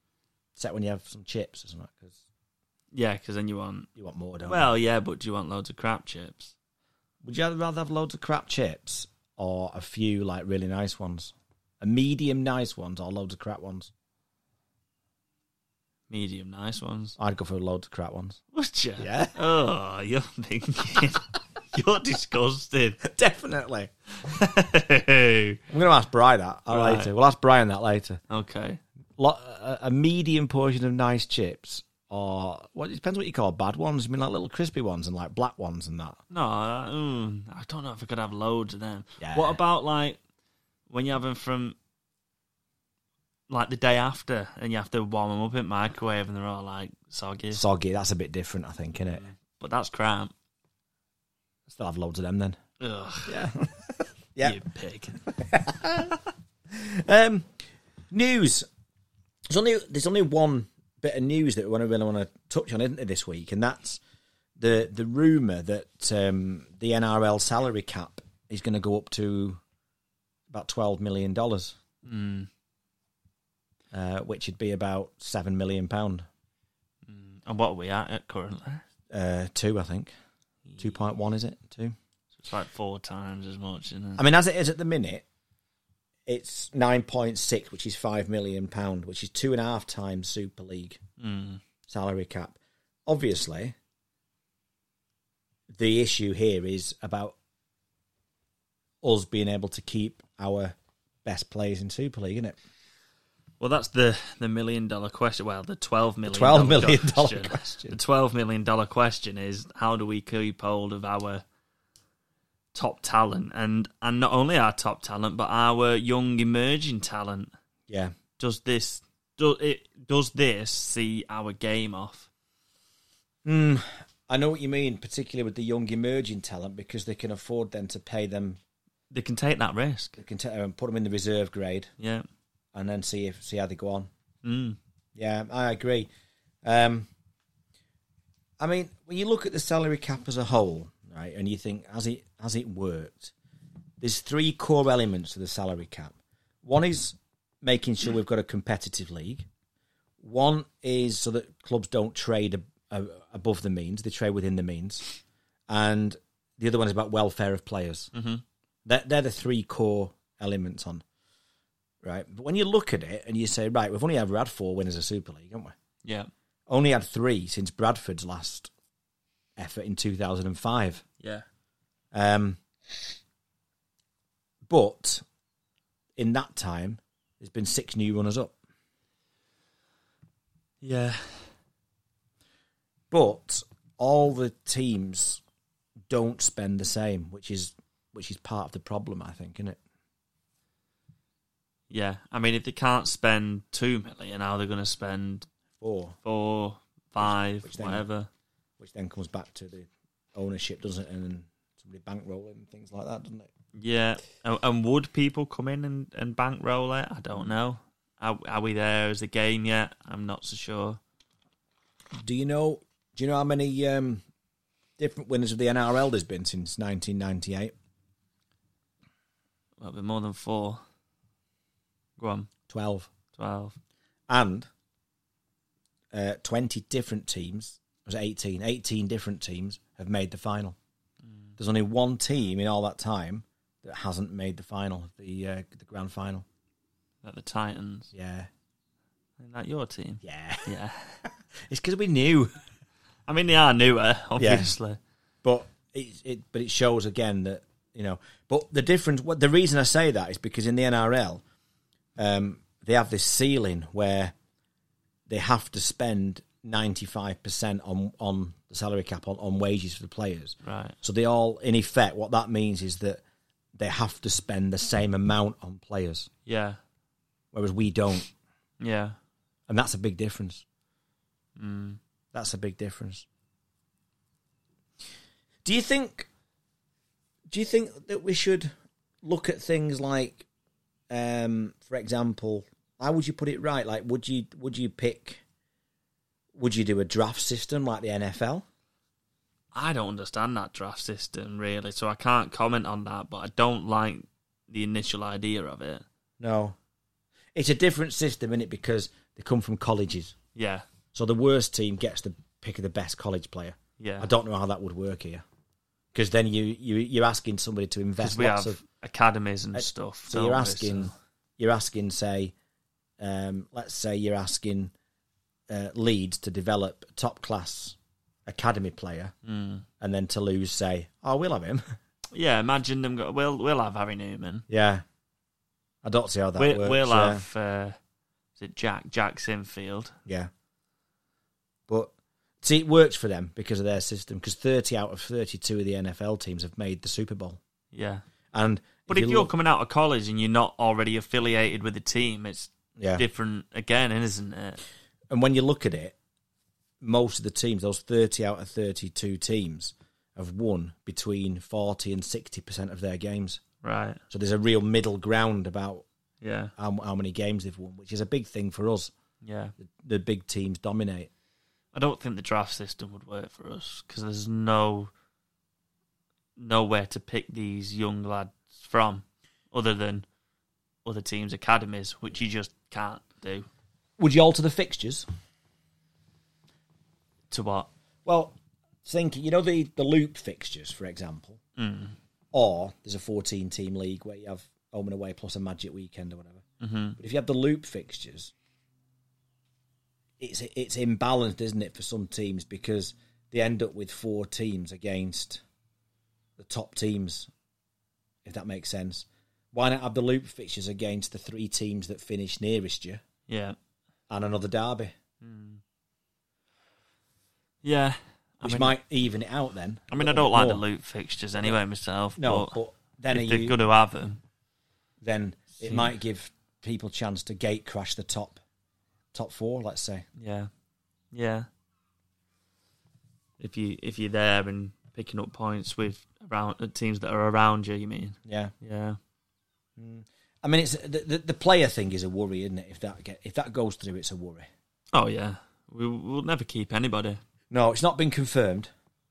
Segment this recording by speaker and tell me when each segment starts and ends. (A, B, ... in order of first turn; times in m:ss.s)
0:00.6-0:02.2 A
0:02.9-0:03.9 B
0:04.0-0:04.7 A
0:04.5-0:06.5 B
0:07.2-0:13.9 A
0:16.1-0:17.2 B
0:17.2-0:18.4 A
0:18.5-0:23.0 B
0:19.0-0:19.4 A
0:23.0-0:23.9 A
0:24.2-0:25.6 B
0:25.7-0:28.2 A
0:26.7-0:27.1 B
0:28.3-0:28.8 B
0:29.2-0:36.2 A
0:36.3-0:40.2 B
0:39.2-0:39.6 A
0:40.9-0:41.8 B
0:43.5-0:47.6 B
0:47.5-0:49.2 A
0:49.1-0:50.3 B
0:51.7-0:52.6 A
0:52.8-0:53.4 B
0:53.3-0:54.6 A
0:54.4-0:55.2 B
0:55.3-0:56.2 A
0:56.7-0:57.5 A
0:58.1-0:58.7 A
0:59.5-1:04.0 A
1:04.6-1:09.6 A
1:10.5-1:11.8 A
1:12.0-1:12.5 B
1:13.9-1:16.3 A
1:17.1-1:18.8 B
1:19.1-1:20.1 A
1:20.7-1:21.0 B
1:20.8-1:22.0 A
1:22.4-1:24.2 B
1:24.2-1:25.2 A
1:26.3-1:31.0 A
1:31.2-1:31.6 B
1:31.9-1:33.8 A
1:35.7-1:37.4 A
1:39.0-1:42.6 A
1:43.6-1:51.4 B
1:46.3-1:48.0 A
1:52.7-1:57.5 B
1:57.9-1:58.1 A
1:58.4-2:02.3 B
2:03.4-2:08.6 A
2:09.1-2:10.2 B
2:10.2-2:11.9 A
2:12.0-2:12.2 B
2:12.7-2:14.1 A
2:14.4-2:14.8 B
2:15.2-2:16.1 A
2:16.6-2:17.1 A
2:18.6-2:23.3 A
2:24.0-2:29.5 A
2:30.2-2:35.1 A
2:35.7-2:38.1 A
2:38.1-2:38.4 B
2:38.8-2:41.0 A
2:42.0-2:45.8 A
2:46.7-2:48.7 A
2:49.6-2:51.0 A
2:52.1-2:52.6 A
2:54.7-2:55.2 A
2:56.2-2:58.6 A
3:00.8-3:01.5 B
3:03.1-3:05.4 A
3:06.1-3:09.8 A
3:11.9-3:15.5 B
3:15.8-3:16.2 A
3:16.2-3:18.3 B
3:17.2-3:18.0 A
3:18.8-3:23.5 A
3:23.8-3:31.0 B
3:32.2-3:34.2 A
3:35.0-3:37.7 A
3:39.8-3:40.8 B
3:42.2-3:42.5 B
3:42.7-3:43.1 A
3:43.3-3:43.8 B
3:44.3-3:44.7 A
3:46.1-3:50.8 A
3:51.2-3:51.5 B
3:51.6-3:56.4 A
3:57.2-3:58.1 B
3:58.1-3:58.5 A
3:59.4-4:01.2 B
4:00.2-4:00.7 A
4:01.6-4:02.5 A
4:03.3-4:05.0 B
4:04.4-4:04.7 A
4:05.4-4:11.4 A
4:12.2-4:14.4 A
4:15.3-4:23.2 A
4:20.6-4:21.0 B
4:23.8-4:26.3 A
4:26.5-4:26.8 B
4:27.5-4:28.3 A
4:28.8-4:29.2 B
4:29.7-4:30.6 A
4:31.6-4:32.0 B
4:32.3-4:33.2 A
4:35.6-4:36.3 A
4:37.5-4:40.4 A
4:41.1-4:45.4 A
4:46.6-4:48.6 A
4:49.7-4:56.0 B
4:56.4-4:56.8 A
4:57.5-5:00.4 A
5:00.6-5:00.8 B
5:01.1-5:05.4 A
5:04.0-5:04.3 B
5:06.1-5:08.8 A
5:08.2-5:11.2 B
5:09.7-5:12.5 A
5:13.2-5:14.9 A
5:15.7-5:19.3 A
5:19.4-5:19.9 B
5:20.0-5:21.8 A
5:22.3-5:24.6 B
5:24.7-5:25.0 A
5:26.0-5:27.4 A
5:26.6-5:28.0 B
5:28.6-5:30.1 B
5:31.9-5:37.6 A
5:37.9-5:38.2 B
5:38.5-5:39.5 A
5:39.1-5:44.8 B
5:43.0-5:43.2 A
5:45.3-5:46.2 A
5:47.0-5:53.6 A
5:53.8-5:54.2 B
5:54.3-5:56.0 A
5:56.4-5:56.7 B
5:56.8-5:59.1 A
5:59.4-5:59.8 B
5:59.8-6:01.3 A
6:01.9-6:05.1 B
6:06.6-6:10.2 B
6:11.0-6:13.7 B
6:14.2-6:15.3 A
6:17.5-6:17.9 B
6:18.2-6:21.6 A
6:21.8-6:22.2 B
6:22.5-6:26.6 A
6:26.8-6:27.2 B
6:27.2-6:28.5 A
6:30.4-6:35.6 A
6:36.6-6:37.5 A
6:38.4-6:43.2 A
6:43.5-6:43.8 B
6:44.3-6:45.1 A
6:45.4-6:45.8 B
6:47.8-6:49.0 B
6:48.6-6:50.8 A
6:50.1-6:52.8 B
6:52.4-6:53.8 A
6:53.3-6:54.4 B
6:55.2-6:58.6 A
6:55.8-6:56.1 B
6:59.3-7:00.3 A
7:00.4-7:00.7 B
7:01.3-7:01.7 B
7:03.6-7:09.2 B
7:08.4-7:08.7 A
7:10.0-7:14.7 A
7:15.1-7:17.4 B
7:17.7-7:18.9 A